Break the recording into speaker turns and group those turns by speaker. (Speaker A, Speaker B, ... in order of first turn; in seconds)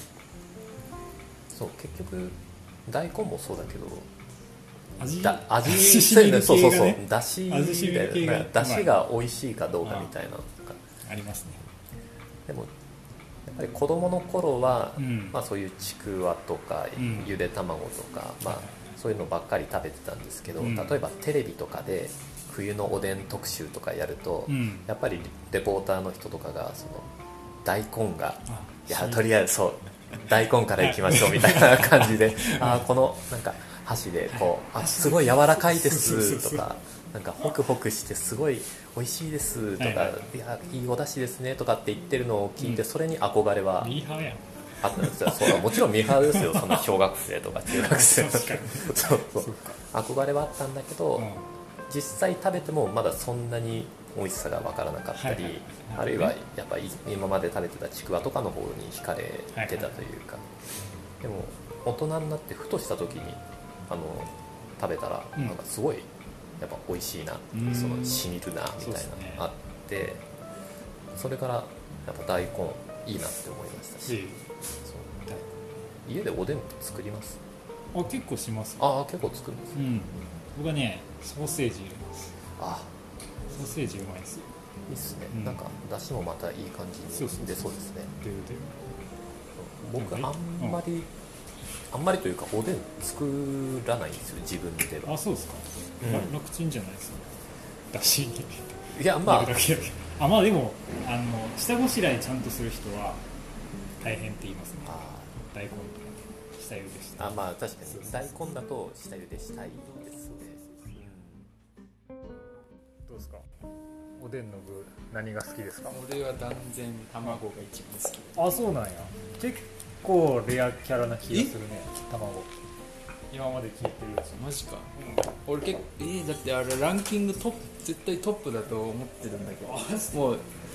Speaker A: 1.5-4.1, 5.2-10.8, 13.4-27.1, 27.6-44.0, 44.8-51.3, 51.9-60.5, 61.2-66.1, 66.6-70.2, 71.2-74.3, 74.8-75.2, 76.1-77.4, 78.8-79.9, 82.6-82.9, 84.9-88.1, 89.6-91.1, 91.9-95.2, 96.0-96.3, 98.9-99.7, 104.9-105.3, 107.2-111.4
Speaker B: 5.0-8.9, 9.8-10.1, 11.0-11.6, 15.0-15.4, 17.0-17.3, 18.5-18.9, 20.6-21.0, 24.5-24.9, 28.5-29.3, 30.8-32.9, 34.3-36.7, 39.8-40.3, 42.6-42.9, 43.8-46.9, 47.7-49.8, 51.2-51.5, 55.1-56.4, 59.5-60.0, 67.5-69.5, 74.1-74.4, 75.3-75.7, 77.9-78.8, 79.7-82.3, 83.5-84.5, 85.3-85.6, 87.1-88.8, 90.0-90.8, 95.0-97.4, 97.9-103.2, 104.0-107.4, 113.0-113.5, 114.2-116.0, 118.3-122.5, 123.3-125.3, 129.6-130.3
Speaker C: 109.8-110.8, 115.9-118.4, 124.3-124.9, 125.5-130.5